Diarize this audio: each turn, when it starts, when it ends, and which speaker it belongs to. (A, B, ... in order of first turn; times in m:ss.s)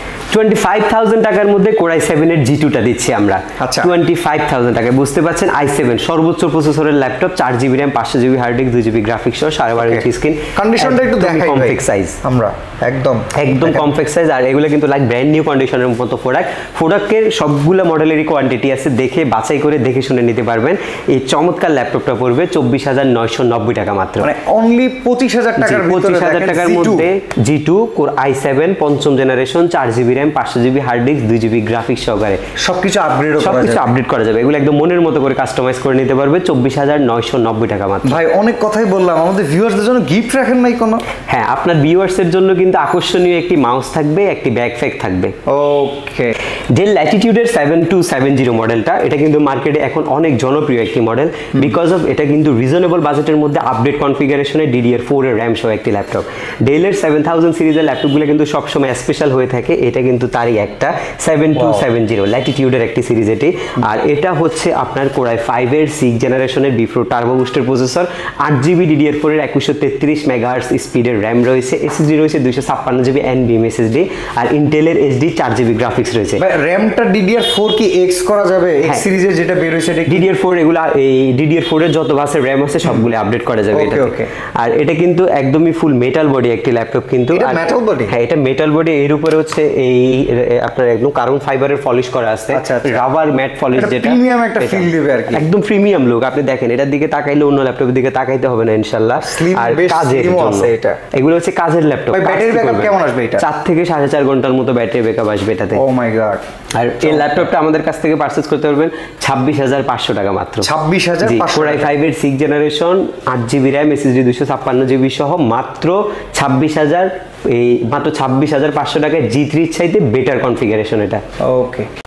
0:00.3-0:12.2 A
0:03.6-0:03.9 B
0:09.7-0:13.9 B
0:13.4-0:24.3 A
0:24.2-0:27.1 B
0:25.6-0:32.4 A
0:32.6-0:33.9 B
0:33.4-0:38.2 A
0:38.0-0:41.0 B
0:41.3-0:45.3 A
0:45.5-0:46.3 B
0:46.7-1:16.4 A
1:01.6-1:01.8 B
1:16.4-1:20.3 B
1:20.1-1:45.8 A
1:23.7-1:24.3 B
1:27.3-1:28.1 B
1:32.5-1:33.0 B
1:33.7-1:35.4 B
1:39.2-1:41.0 B
1:42.1-1:43.4 B
1:45.7-1:46.4 B
1:46.7-1:50.7 A
1:47.0-1:47.5 B
1:50.6-1:51.9 B
1:51.2-2:01.2 A
2:01.4-2:01.9 B